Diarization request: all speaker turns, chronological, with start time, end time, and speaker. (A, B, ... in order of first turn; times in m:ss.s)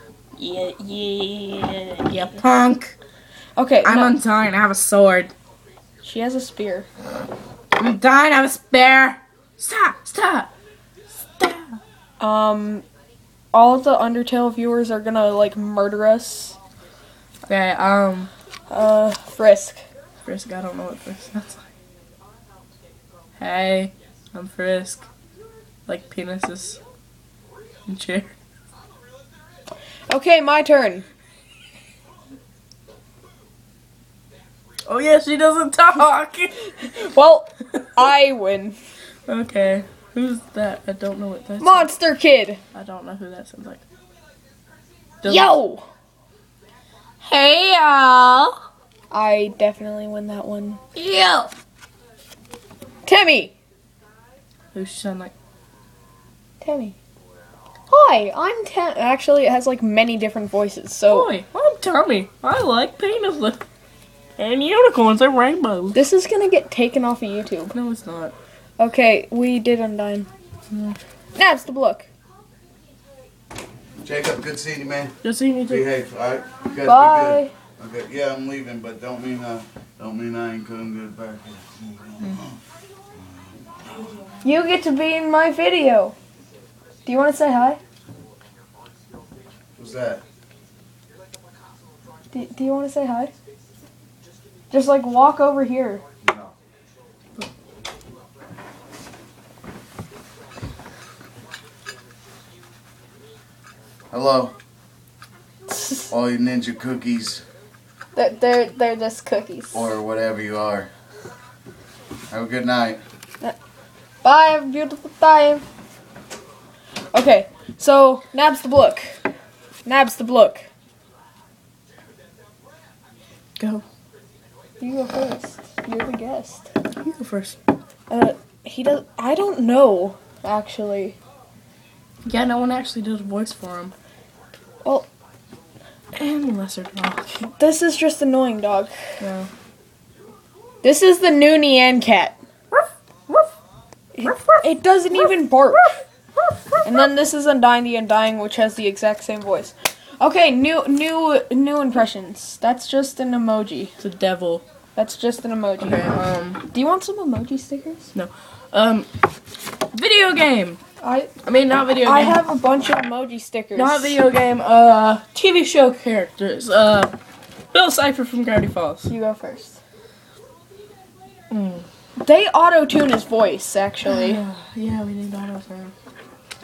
0:00.4-0:03.0 A
0:01.1-0:01.4 B
0:03.6-0:04.2 B
0:03.8-0:05.3 A
0:06.0-0:06.9 B
0:07.8-0:10.5 A
0:11.2-0:11.8 A
0:12.2-0:12.8 B
0:13.5-0:16.6 B
0:17.4-0:18.3 A
0:18.7-0:19.8 B
0:20.2-0:21.6 A
0:23.4-0:25.1 A
0:25.9-0:26.8 A
0:27.9-0:28.3 A
0:30.1-0:31.0 B
0:34.9-0:36.6 A
0:36.6-0:38.8 B
0:39.3-0:41.9 A
0:41.6-0:42.6 B
0:42.7-0:43.8 A
0:45.2-0:45.5 A
0:45.2-0:45.9 B
0:47.2-0:48.6 B
0:49.1-0:51.5 B
0:53.0-0:53.5 B
0:54.7-0:55.3 A
0:56.6-0:57.0 B
0:57.9-1:01.3 B
1:01.1-1:03.6 A
1:04.4-1:06.0 A
1:05.9-1:07.7 B
1:07.7-1:08.3 A
1:08.8-1:10.3 B
1:11.3-1:12.1 B
1:14.0-1:15.1 C
1:15.2-1:15.9 A
1:15.7-1:22.5 C
1:16.8-1:17.5 B
1:24.4-1:26.1 B
1:27.0-1:27.8 B
1:29.8-1:30.2 C
1:32.3-1:33.3 B
1:34.7-1:36.0 B
1:36.2-1:36.5 C
1:44.1-1:44.5 C
1:45.7-1:46.1 B
1:46.1-1:47.4 C
1:48.1-1:49.9 B
1:49.7-1:50.9 C
1:52.3-1:53.0 C
1:54.2-1:55.6 B
1:57.1-1:59.2 B
1:59.8-2:00.7 B
2:03.6-2:03.8 A
2:04.8-2:06.7 B
2:07.0-2:07.6 A
2:08.1-2:11.2 B
2:12.2-2:13.9 A
2:14.8-2:15.1 B
2:16.1-2:17.5 A
2:17.6-2:18.9 B
2:19.2-2:19.5 A
2:20.8-2:22.4 B
2:24.2-2:26.0 B
2:26.8-2:33.9 B
2:34.0-2:34.6 A
2:34.9-2:36.1 B
2:35.8-2:36.6 A
2:36.7-2:38.1 B
2:38.1-2:39.1 A
2:39.9-2:40.8 A
2:41.0-2:41.3 B
2:41.4-2:42.4 A
2:42.0-2:44.2 B
2:43.7-2:47.1 A
2:47.7-2:49.1 A
2:49.0-2:49.8 B
2:51.5-2:51.8 A
2:52.2-2:54.4 B
2:54.0-2:55.9 A